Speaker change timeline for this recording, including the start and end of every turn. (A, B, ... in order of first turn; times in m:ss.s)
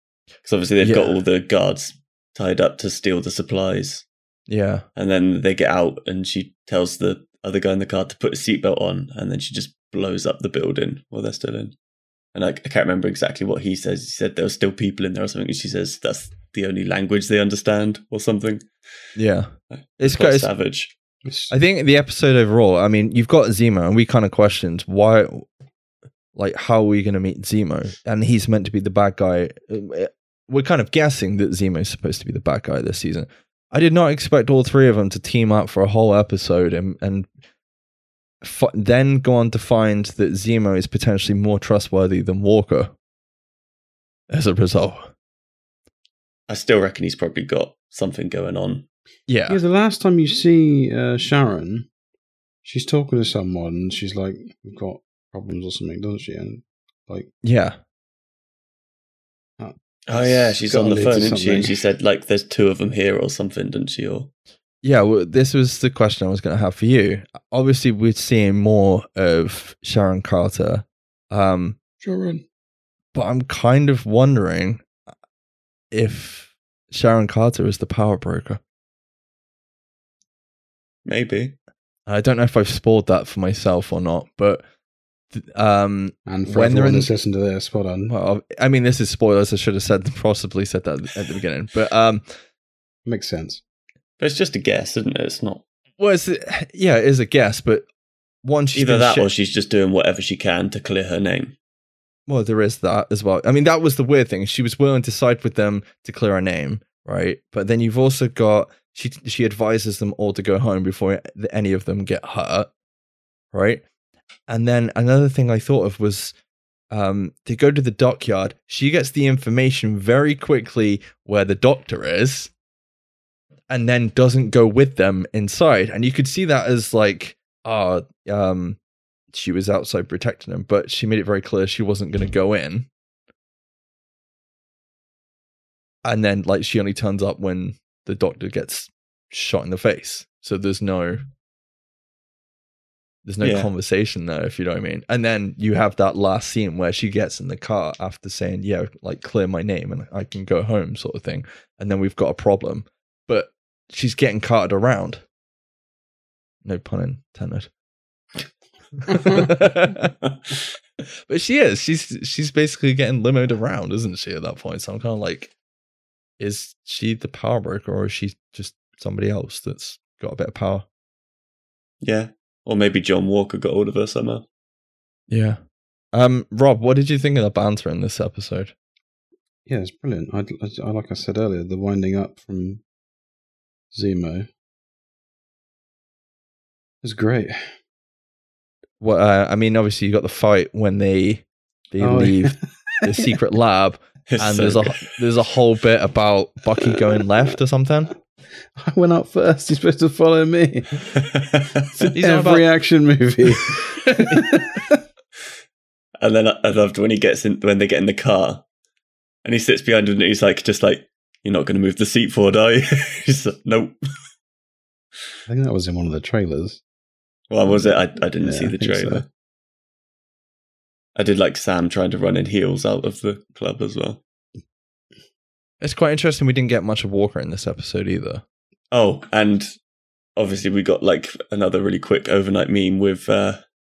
0:00.4-0:04.1 A
0:00.8-0:01.2 B
0:04.5-0:04.8 B
0:05.0-0:11.8 A
0:12.4-0:18.7 A
0:19.2-0:20.5 B
0:19.7-0:20.9 A
0:21.2-0:21.6 C
0:21.5-0:25.5 B
0:26.4-0:37.3 B
0:38.4-0:42.9 B
0:44.3-0:45.1 B
0:46.5-0:48.9 A
0:49.3-0:49.6 B
0:49.5-0:51.9 C
0:52.6-0:57.3 C
0:57.4-0:57.8 B
0:59.6-1:01.8 C
1:00.1-1:04.3 A
1:04.8-1:11.8 B
1:12.0-1:12.4 C
1:13.1-1:14.9 B
1:15.9-1:18.6 B
1:21.1-1:21.6 A
1:22.1-1:24.6 B
1:25.3-1:27.1 B
1:26.3-1:28.1 C
1:28.1-1:32.3 B
1:33.1-1:33.6 C
1:34.2-1:35.6 A
1:36.0-1:37.9 B
1:38.4-1:39.3 B
1:38.8-1:41.6 A
1:42.3-1:52.7 B
1:53.5-1:53.8 B
1:54.5-1:56.4 B
1:56.9-2:02.5 B
2:03.7-2:08.8 B
2:09.3-2:12.9 B
2:16.0-2:21.3 B
2:23.2-2:35.2 B
2:23.4-2:23.7 A
2:36.6-2:37.7 B
2:39.0-2:40.1 B
2:41.2-2:45.5 B
2:46.4-2:50.9 B
2:52.0-2:54.5 A
2:55.3-2:55.6 B
2:56.1-2:58.7 B
2:59.7-3:02.8 C
3:03.9-3:04.5 C
3:07.0-3:07.8 C
3:09.0-3:18.1 B
3:12.0-3:13.0 C
3:14.3-3:15.2 A
3:18.8-3:21.2 C
3:21.2-3:21.8 A
3:22.0-3:25.0 C
3:22.1-3:22.6 B
3:24.1-3:24.5 B
3:26.2-3:28.6 A
3:29.4-3:34.0 A
3:35.5-3:36.8 C
3:37.5-3:39.3 A
3:37.7-3:39.2 C
3:41.2-3:44.2 A
3:45.8-3:48.4 B
3:48.9-3:49.7 A
3:50.4-3:53.6 A